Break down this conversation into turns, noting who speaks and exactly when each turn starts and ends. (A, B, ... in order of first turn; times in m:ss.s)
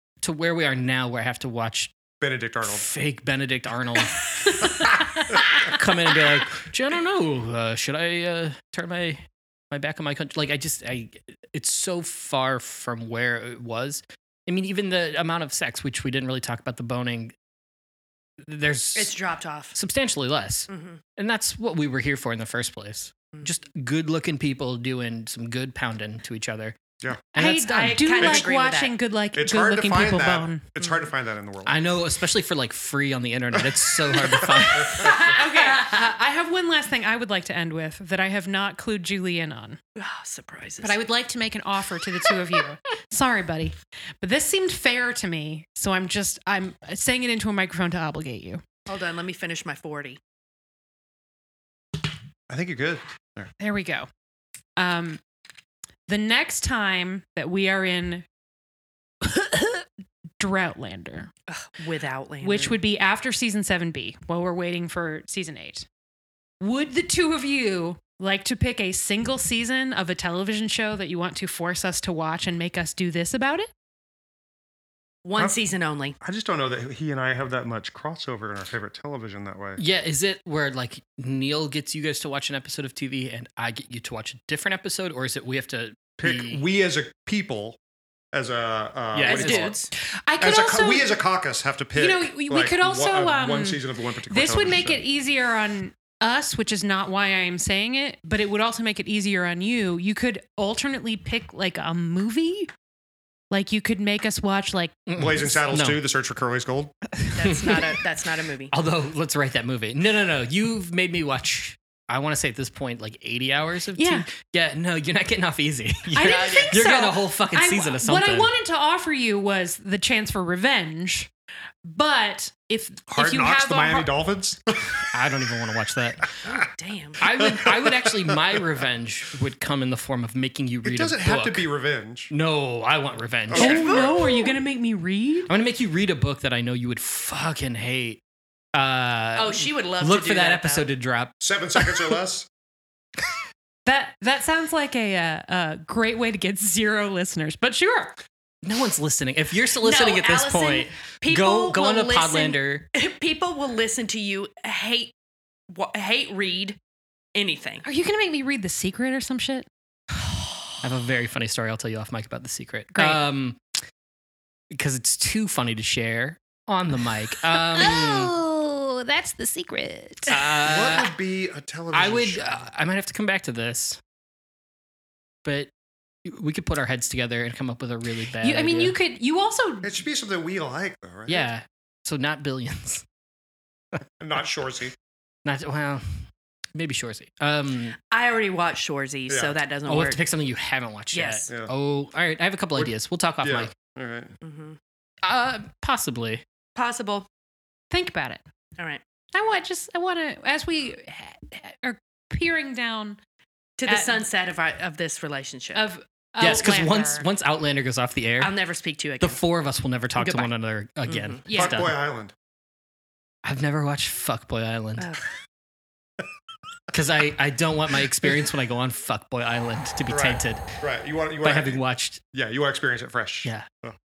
0:00.2-0:01.9 A
0:02.2-0:02.8 B
0:02.7-0:17.3 A
0:18.4-0:19.1 A
0:19.0-0:19.8 C
0:19.7-0:26.8 A
0:20.7-0:21.0 C
0:27.3-0:28.1 A
0:27.4-0:30.6 D
0:27.9-0:28.9 C
0:29.3-0:31.8 B
0:31.6-0:35.3 A
0:33.6-0:35.2 B
0:35.0-0:36.0 C
0:35.2-0:39.8 D
0:40.0-0:41.0 C
0:40.8-0:48.6 D
0:48.9-0:50.2 C
0:52.5-0:53.5 B
0:53.6-0:54.1 D
0:54.8-0:55.2 D
0:56.1-0:58.2 D
0:59.2-0:59.9 D
1:00.4-1:01.3 D
1:01.5-1:02.8 C
1:02.4-1:05.9 D
1:06.6-1:13.7 D
1:15.2-1:16.2 C
1:16.2-1:19.8 B
1:19.8-1:26.6 A
1:26.2-1:27.8 B
1:28.3-1:29.7 B
1:29.1-1:29.8 A
1:29.2-1:29.9 C
1:30.3-1:31.1 D
1:30.4-1:35.0 B
1:32.0-1:42.7 D
1:43.5-1:45.6 D
1:45.1-1:46.0 A
1:45.2-1:46.9 B
1:47.3-1:48.7 C
1:47.4-1:47.9 A
1:48.7-1:58.5 A
1:54.0-1:54.3 D
1:56.1-2:01.3 D
1:56.2-1:56.9 C
2:01.8-2:04.1 D
2:03.1-2:05.0 B
2:05.1-2:06.4 A
2:06.4-2:07.2 C
2:07.2-2:11.6 A
2:07.4-2:08.6 B
2:10.8-2:12.3 B
2:12.3-2:14.1 A
2:13.5-2:14.3 B
2:13.6-2:15.5 D
2:13.6-2:14.5 C
2:15.5-2:18.2 A
2:18.7-2:21.3 A
2:19.4-2:20.9 C
2:21.4-2:22.5 B
2:23.8-2:28.2 D
2:28.6-2:32.9 A
2:29.8-2:35.1 C
2:35.7-2:36.8 C
2:37.4-2:37.8 C
2:37.8-2:39.7 D
2:40.8-2:43.6 A
2:43.0-2:43.2 D
2:44.7-2:48.3 A
2:47.7-2:50.4 D
2:50.3-2:51.1 A
2:50.6-2:52.6 B
2:51.9-2:54.0 A
2:55.4-2:55.7 A
2:56.2-2:59.0 A
2:58.4-2:59.9 D
2:59.8-3:01.5 B
3:01.3-3:03.0 A
3:04.2-3:04.9 B
3:05.4-3:08.0 A
3:08.1-3:10.2 C
3:09.3-3:09.6 B
3:09.9-3:13.7 A
3:11.1-3:11.5 C
3:12.8-3:14.3 B
3:14.4-3:14.8 C
3:15.2-3:16.4 A
3:16.8-3:17.3 C
3:17.9-3:18.4 D
3:19.3-3:23.2 D
3:23.8-3:25.9 C
3:23.9-3:24.2 D
3:25.8-3:27.3 D
3:26.4-3:28.5 A
3:28.4-3:29.4 C
3:29.2-3:32.0 A
3:30.2-3:30.5 C
3:31.1-3:31.4 C
3:31.5-3:31.8 D
3:31.5-3:32.3 B
3:33.4-3:35.1 A
3:36.9-3:40.6 A
3:40.1-3:41.8 B
3:41.4-3:42.2 A
3:42.3-3:44.0 B